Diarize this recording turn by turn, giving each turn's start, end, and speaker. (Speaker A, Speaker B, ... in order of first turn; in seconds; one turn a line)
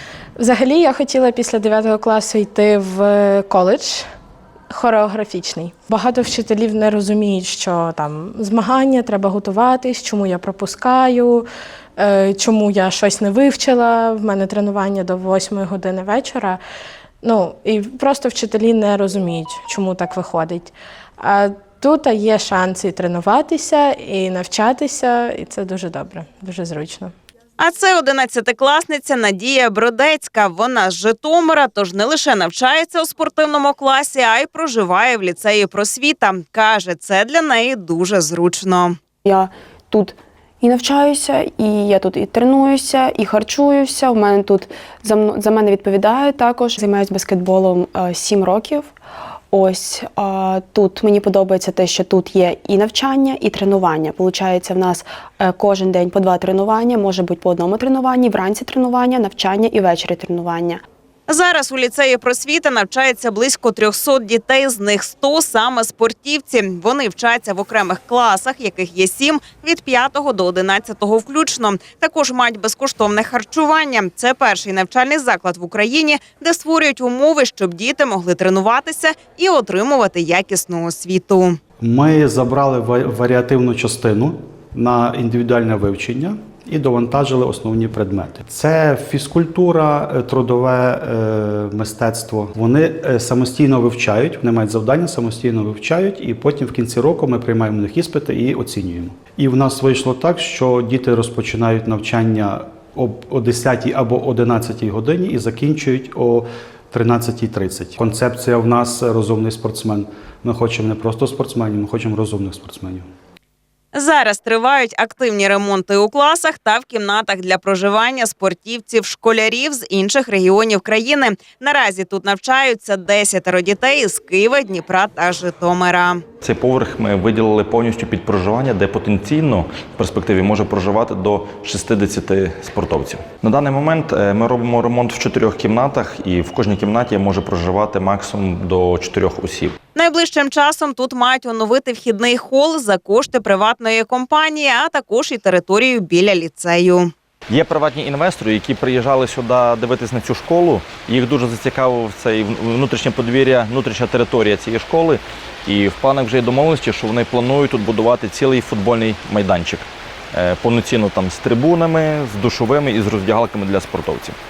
Speaker A: 0.4-4.0
Speaker A: 4.7-11.4
Speaker A: 12.0-16.6
Speaker A: 17.2-27.1
Speaker B: 27.6-39.0
Speaker C: 39.2-48.9
Speaker C: 49.5-60.8
Speaker B: 61.3-81.6
Speaker D: 81.8-113.0
Speaker B: 113.9-126.2
Speaker E: 126.4-139.8
Speaker B: 139.9-147.1
Speaker E: 147.5-164.3